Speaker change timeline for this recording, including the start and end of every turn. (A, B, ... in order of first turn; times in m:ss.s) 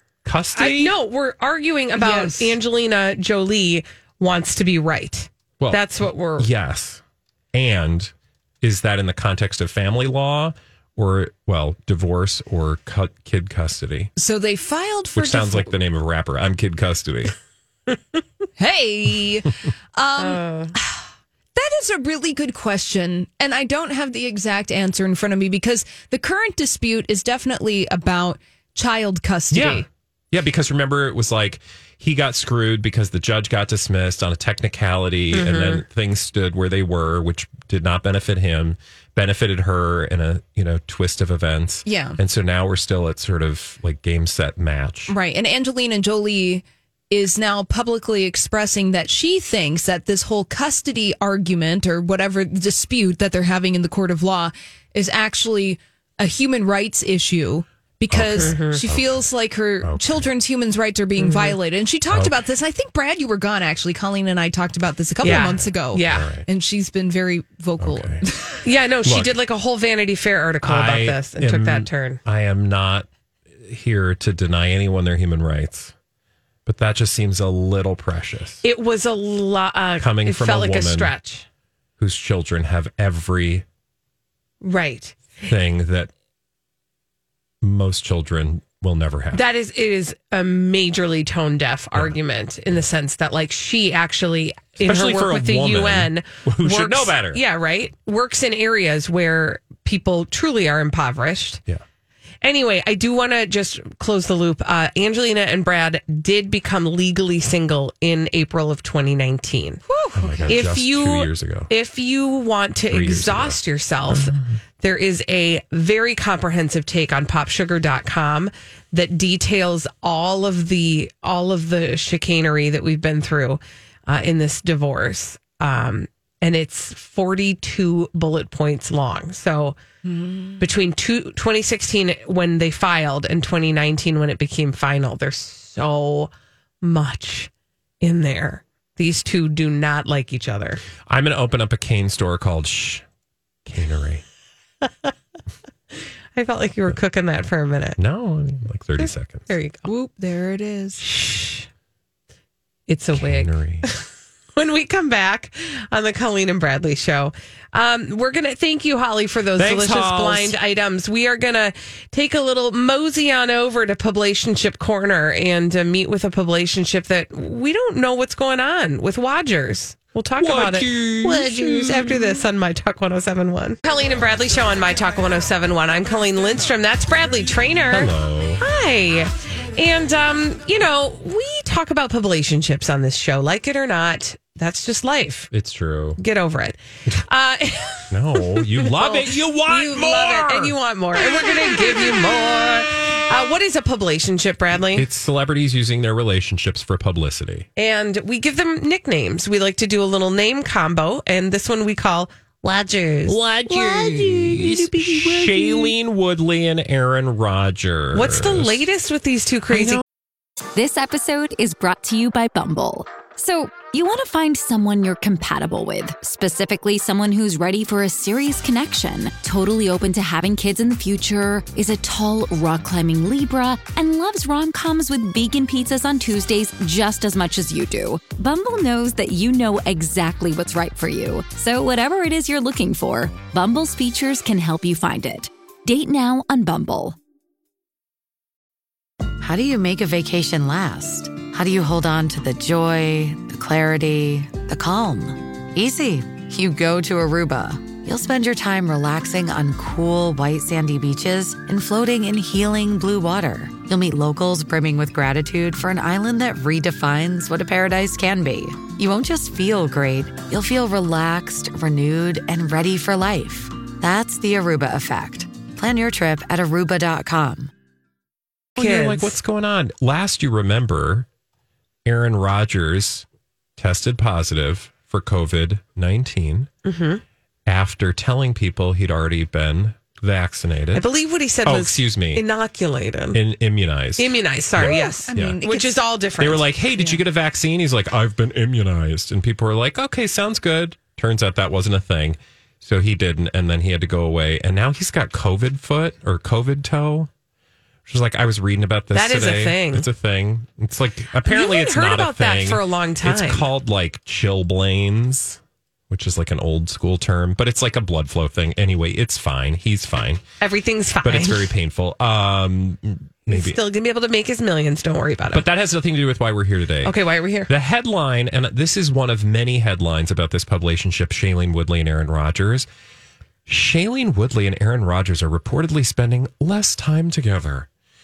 0:00.2-0:01.0 A
0:00.5-0:06.5 B
0:02.0-0:02.6 C
0:05.6-0:05.9 A
0:06.4-0:14.1 A
0:14.2-0:15.7 C
0:15.2-0:17.4 A
0:18.6-0:29.9 C
0:20.2-0:20.8 B
0:29.5-0:45.1 A
0:35.3-0:35.8 B
0:41.9-0:42.2 C
0:45.1-1:08.6 C
0:58.1-0:59.3 A
0:58.4-0:58.8 B
0:59.8-1:00.2 A
1:01.2-1:01.6 B
1:02.1-1:02.4 A
1:05.2-1:06.3 B
1:05.2-1:06.5 A
1:07.8-1:08.2 A
1:08.6-1:12.2 B
1:09.0-1:09.4 A
1:10.6-1:15.9 A
1:16.7-1:18.6 A
1:18.6-1:21.5 B
1:20.0-1:21.1 A
1:22.0-1:23.6 A
1:24.6-1:25.3 B
1:25.5-1:26.1 A
1:27.6-1:29.4 A
1:29.3-1:41.6 B
1:34.8-1:37.4 A
1:42.4-1:49.8 B
1:49.9-1:50.7 C
1:50.2-1:51.7 A
1:50.5-2:09.8 B
1:52.9-1:54.6 A
2:10.0-2:10.6 C
2:10.6-2:16.3 B
2:16.8-2:17.5 B
2:18.0-2:20.8 B
2:21.1-2:23.0 A
2:23.6-2:24.2 A
2:26.4-2:28.0 B
2:28.0-2:29.5 A
2:29.0-2:29.9 B
2:29.8-2:31.0 C
2:31.0-2:31.7 B
2:32.9-3:05.5 B
2:33.1-2:33.9 A
2:39.6-2:40.6 A
2:50.4-2:52.4 A
2:57.9-2:58.6 A
3:05.5-3:06.2 A
3:06.2-3:15.1 B
3:08.1-3:10.8 A
3:14.8-3:17.7 A
3:17.8-3:25.9 B
3:23.3-3:28.8 A
3:28.1-3:30.0 B
3:30.8-3:57.2 D
3:59.4-4:27.7 E
4:28.8-4:29.3 B
4:28.8-4:31.3 A
4:32.1-4:33.3 A
4:33.8-4:36.7 A
4:36.8-4:37.2 B
4:37.7-4:41.1 A
4:40.9-4:43.4 B
4:41.6-4:42.4 A
4:43.3-4:45.6 A
4:44.2-4:46.7 B
4:44.8-4:46.0 C
4:46.4-4:57.3 A
4:58.1-5:10.4 A
4:59.1-5:00.1 B
5:01.4-5:03.6 B
5:10.6-5:11.7 B
5:11.2-5:13.8 A
5:13.5-5:15.7 B
5:15.5-5:17.2 A
5:17.0-5:17.7 B
5:17.7-5:22.9 A
5:23.7-5:27.9 A